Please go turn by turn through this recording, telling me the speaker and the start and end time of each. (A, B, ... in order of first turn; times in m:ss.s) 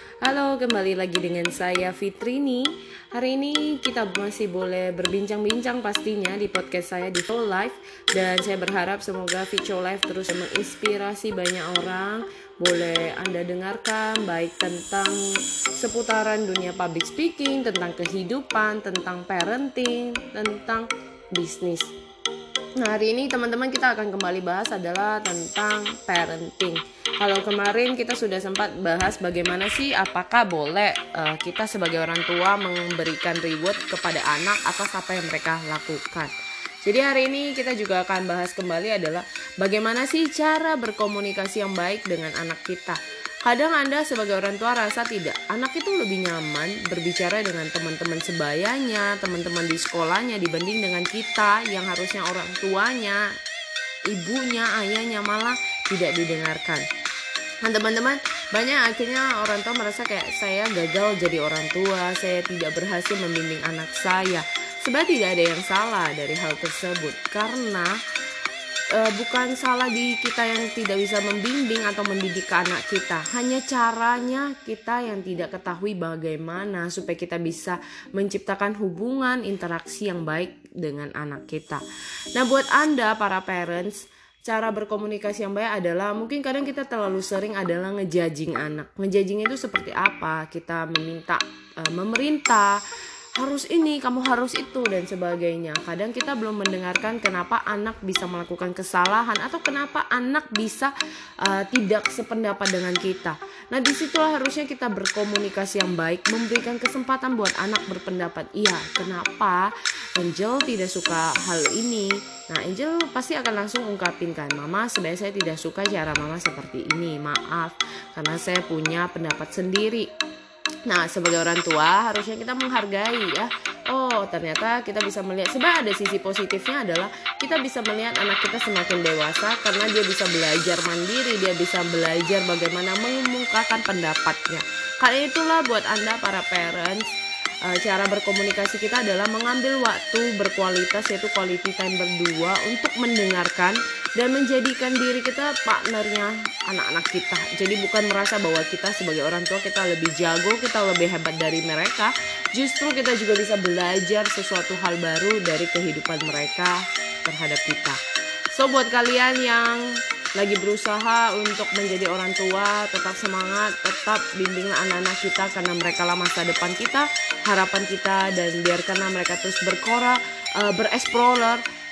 0:00.2-0:22.0 A
0:22.8-0:53.3 A
0:54.1-0:56.9 A
0:57.6-1:08.0 A
1:08.9-1:21.8 A
1:22.4-1:32.8 A
1:33.4-2:00.1 A
2:00.9-2:38.0 A
2:38.5-2:51.6 A